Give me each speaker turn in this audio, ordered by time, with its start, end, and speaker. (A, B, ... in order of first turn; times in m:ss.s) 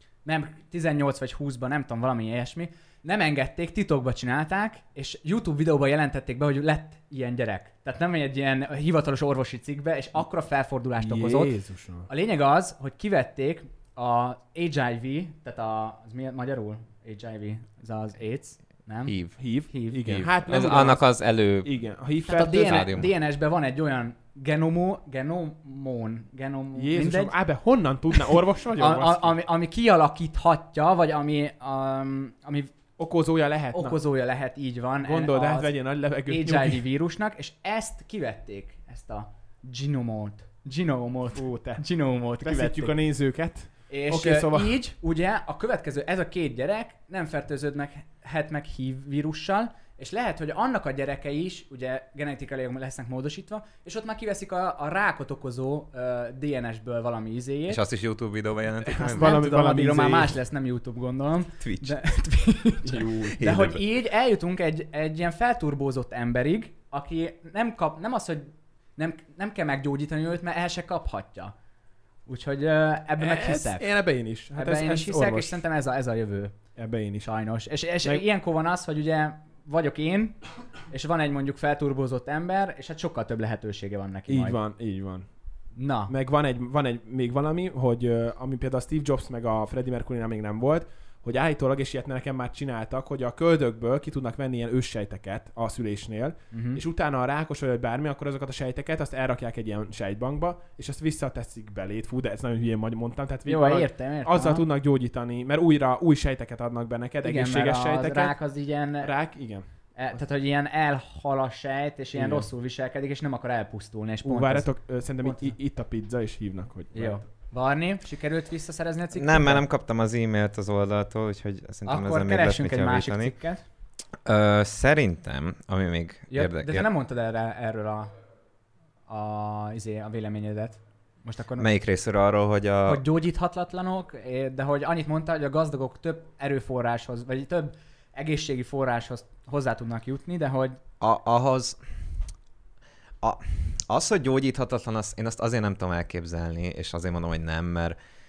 0:00.2-0:11.5 A
0:11.0-0:12.1 B
0:12.1-0:19.1 A
0:19.1-0:19.3 C
0:19.4-0:22.9 B
0:19.7-0:20.2 A
0:20.0-0:21.7 C
0:22.2-0:27.3 A
0:22.5-0:23.1 C
0:26.8-0:29.3 B
0:28.8-0:32.7 A
0:33.0-0:34.0 B
0:33.7-0:35.7 A
0:35.0-0:36.8 B
0:36.3-0:43.0 A
0:41.3-0:41.8 B
0:42.4-0:44.8 B
0:43.9-0:57.8 A
0:57.7-0:59.4 C
0:58.8-1:00.4 B
0:59.0-1:11.5 A
1:01.6-1:02.0 C
1:02.8-1:03.4 B
1:03.3-1:03.8 C
1:12.3-1:13.8 A
1:13.2-1:15.6 B
1:14.5-1:16.5 A
1:16.8-1:17.3 B
1:17.2-1:20.4 A
1:20.9-1:24.6 A
1:24.3-1:25.2 B
1:25.8-1:26.1 A
1:26.1-1:48.3 B
1:36.5-1:36.8 A
1:43.4-1:44.6 A
1:47.2-1:49.1 A
1:49.0-1:49.6 B
1:50.0-1:54.7 A
1:52.1-1:52.5 B
1:54.2-1:57.2 B
1:56.9-1:59.6 A
1:59.1-2:03.3 C
2:01.9-2:03.6 A
2:04.2-2:06.9 C
2:06.3-2:08.1 A
2:09.1-2:11.7 A
2:11.6-2:13.0 C
2:12.8-2:20.8 A
2:21.0-2:21.8 C
2:23.2-2:28.0 C